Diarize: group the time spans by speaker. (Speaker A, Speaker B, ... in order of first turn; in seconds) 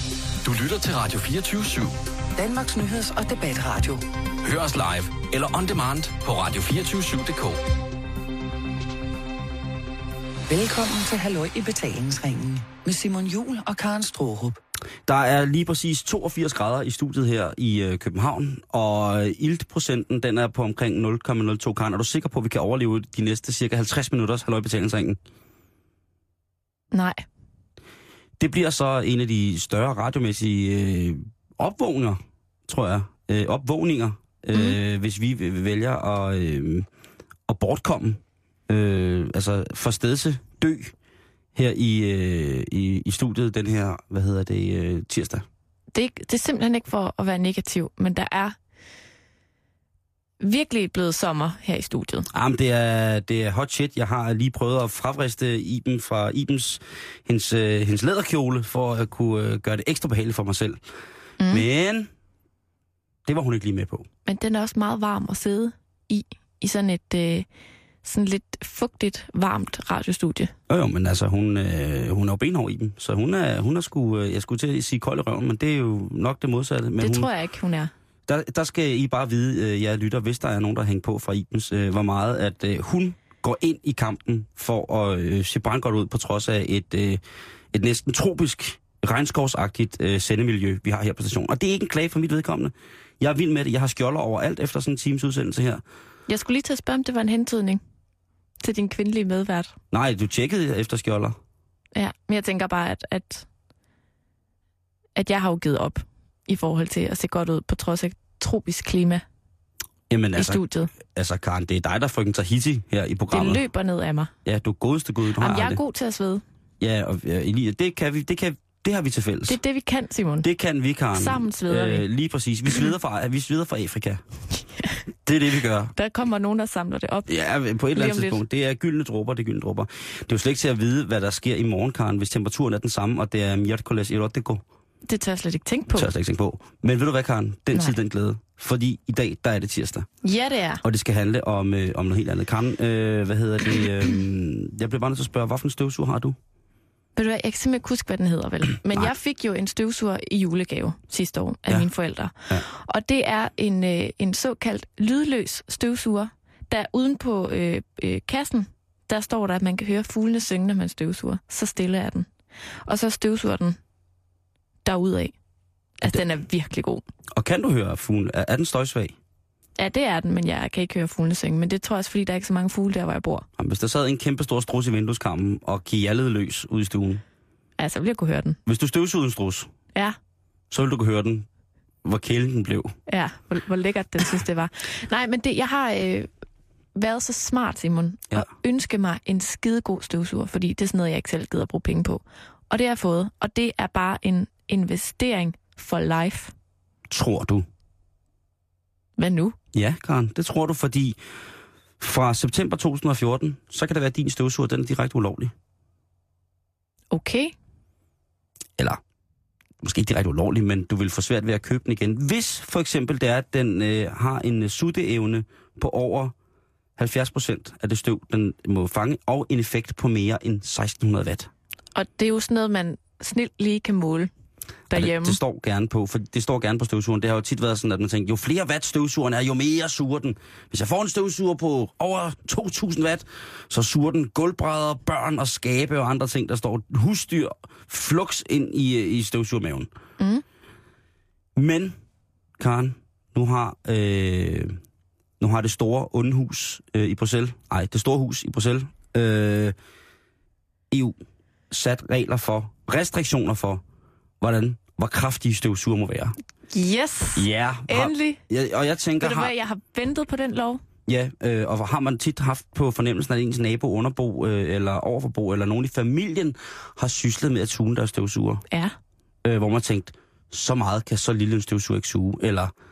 Speaker A: 0.4-1.9, 4.4-7.6
Speaker B: 2.4-4.0, 10.5-14.6
Speaker C: 15.1-25.2, 28.4-36.9, 37.5-40.9, 41.5-45.5, 52.3-60.8, 61.5-62.1, 63.3-64.1, 70.7-77.3, 78.3-87.2, 87.7-95.8, 99.9-101.4, 110.1-113.6, 114.5-115.8, 116.8-119.6, 120.4-124.2, 125.3-125.9, 127.3-134.6, 135.9-140.1, 140.8-146.4, 167.3-169.2, 173.6-177.2, 178.7-179.7, 180.7-181.5, 182.0-183.0, 197.1-197.7, 199.7-201.2, 202.0-205.5, 209.8-216.3, 217.0-221.5, 224.9-239.9, 241.6-241.9, 242.6-244.8, 245.4-249.8, 250.9-251.2, 251.7-253.8, 254.4-256.4, 257.4-259.5, 261.1-268.6, 269.4-272.7
Speaker D: 26.9-27.2, 45.9-48.6, 50.4-52.3, 61.4-61.7, 64.3-67.5, 68.0-70.5, 77.0-77.9, 96.3-97.8, 98.6-99.8, 102.0-103.5, 105.2-109.2, 110.4-110.9, 113.3-114.3, 115.4-116.4, 119.5-120.5, 121.1-122.0, 126.0-127.3, 127.9-128.4, 135.1-136.1, 140.2-140.8, 147.2-162.3, 162.9-163.8, 164.8-165.3, 166.0-167.0, 169.8-173.5, 177.8-178.6, 183.1-186.3, 186.9-196.5, 199.2-199.6, 207.1-207.5, 221.9-224.3, 224.9-225.4, 240.2-240.4, 256.7-258.4, 259.2-260.8